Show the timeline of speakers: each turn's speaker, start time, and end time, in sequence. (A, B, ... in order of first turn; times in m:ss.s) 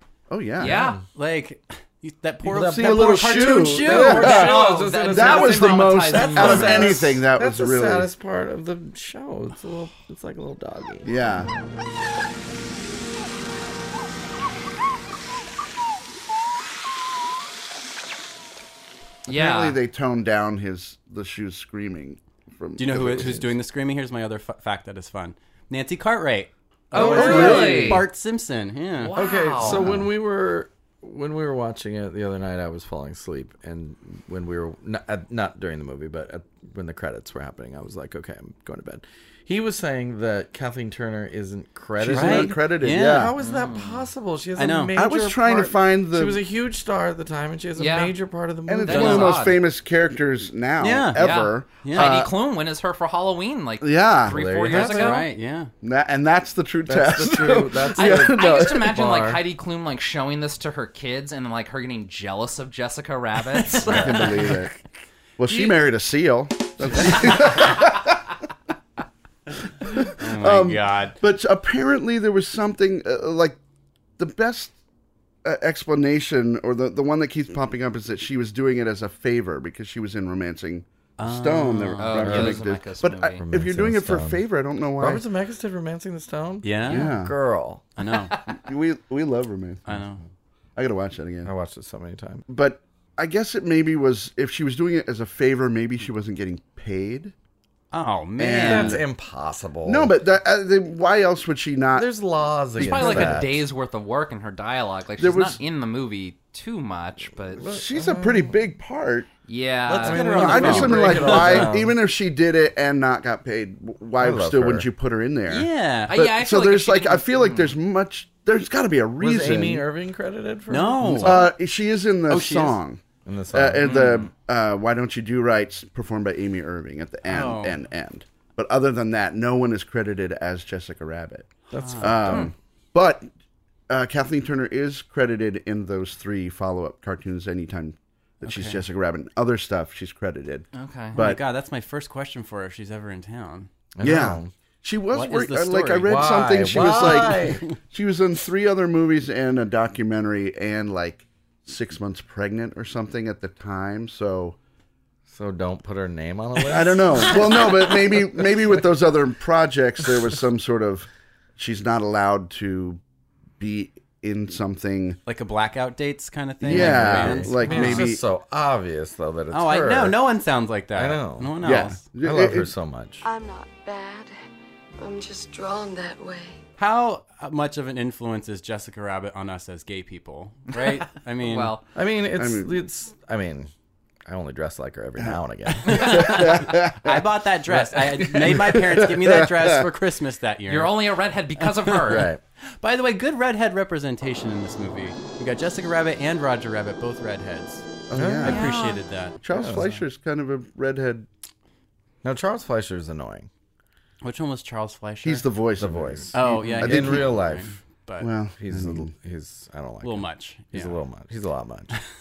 0:00.3-0:00.8 A
0:00.6-0:01.0 B
0:00.6-0:01.0 C
0:01.1-0:04.5 D
0:02.5-0:11.1 C
0:02.5-0:04.6 A
0:04.2-0:07.0 B
0:05.1-0:08.1 A
0:11.0-0:11.5 A
0:19.3-0:23.5 A
0:19.3-0:19.8 B
0:22.8-0:29.1 D
0:26.9-0:28.0 B
0:27.0-0:28.0 A
0:27.0-0:27.9 C
0:29.0-0:29.8 B
0:29.2-0:49.5 C
0:29.6-0:30.1 A
0:42.0-0:43.3 A
0:42.1-0:43.3 D
0:43.4-0:44.1 B
0:44.6-0:45.0 D
0:45.0-0:46.4 A
0:47.8-0:48.2 B
0:48.7-0:52.3 A
0:48.8-0:49.6 B
0:50.8-0:51.3 D
0:51.2-0:55.2 B
0:51.8-0:52.2 D
0:53.8-0:54.4 A
0:54.3-0:55.3 C
0:54.7-0:55.7 D
0:55.8-0:59.0 A
0:56.9-0:59.4 C
0:58.0-1:04.2 B
1:03.8-1:04.6 C
1:03.9-1:04.7 A
1:05.4-1:08.2 A
1:06.9-1:07.3 D
1:09.8-1:13.6 A
1:10.1-1:11.2 D
1:14.2-1:14.7 A
1:15.4-1:25.2 A
1:21.2-1:22.4 D
1:22.0-1:23.4 B
1:22.2-1:22.7 C
1:23.4-1:24.4 C
1:25.0-1:27.9 C
1:26.6-1:27.1 D
1:26.9-1:27.4 A
1:28.0-1:28.4 D
1:28.5-1:30.2 A
1:29.9-1:30.2 D
1:30.8-1:31.5 A
1:31.4-1:32.4 C
1:32.5-1:37.3 A
1:37.9-1:39.0 D
1:38.4-1:39.0 A
1:38.6-1:40.1 C
1:39.8-1:42.1 A
1:41.9-1:43.7 C
1:42.8-1:43.4 A
1:42.8-1:47.7 B
1:45.2-1:45.6 A
1:47.5-1:48.6 C
1:47.6-1:49.3 A
1:49.5-1:51.2 B
1:49.9-1:52.0 C
1:49.9-1:51.8 D
1:50.1-1:59.8 A
1:54.2-1:54.9 C
1:55.5-1:56.2 D
1:56.1-1:57.8 B
1:59.2-2:01.5 C
2:00.7-2:01.6 D
2:01.2-2:13.3 A
2:02.3-2:02.8 D
2:03.2-2:04.0 C
2:03.8-2:04.3 B
2:07.3-2:07.8 D
2:11.7-2:12.5 C
2:11.7-2:12.4 D
2:13.9-2:21.4 A
2:18.4-2:18.8 D
2:20.7-2:21.2 B
2:21.2-2:23.7 D
2:24.0-2:24.5 C
2:24.0-2:34.6 A
2:25.1-2:27.7 D
2:26.0-2:27.7 C
2:35.3-2:38.1 C
2:36.6-2:43.0 A
2:43.6-2:45.2 A
2:45.3-2:48.1 D
2:46.6-2:48.2 A
2:46.6-2:50.2 C
2:49.5-2:52.0 D
2:50.9-2:53.3 C
2:51.6-2:52.7 A
2:53.2-2:54.3 E
2:55.0-2:56.6 E
2:56.8-3:01.8 D
3:00.7-3:01.8 B
3:02.0-3:03.7 C
3:02.3-3:02.8 A
3:04.3-3:06.6 C
3:05.8-3:17.8 D
3:05.9-3:07.2 A
3:07.7-3:08.7 C
3:08.4-3:09.8 A
3:10.7-3:12.3 B
3:12.1-3:12.4 C
3:18.1-3:18.8 A
3:18.1-3:18.7 C
3:18.4-3:20.0 D
3:18.4-3:19.0 B
3:19.4-3:21.3 A
3:19.5-3:20.0 C
3:22.2-3:23.5 C
3:24.2-3:25.5 D
3:25.2-3:27.3 A
3:25.8-3:27.8 C
3:26.3-3:28.3 D
3:28.2-3:29.1 A
3:28.6-3:32.0 C
3:30.0-3:31.0 D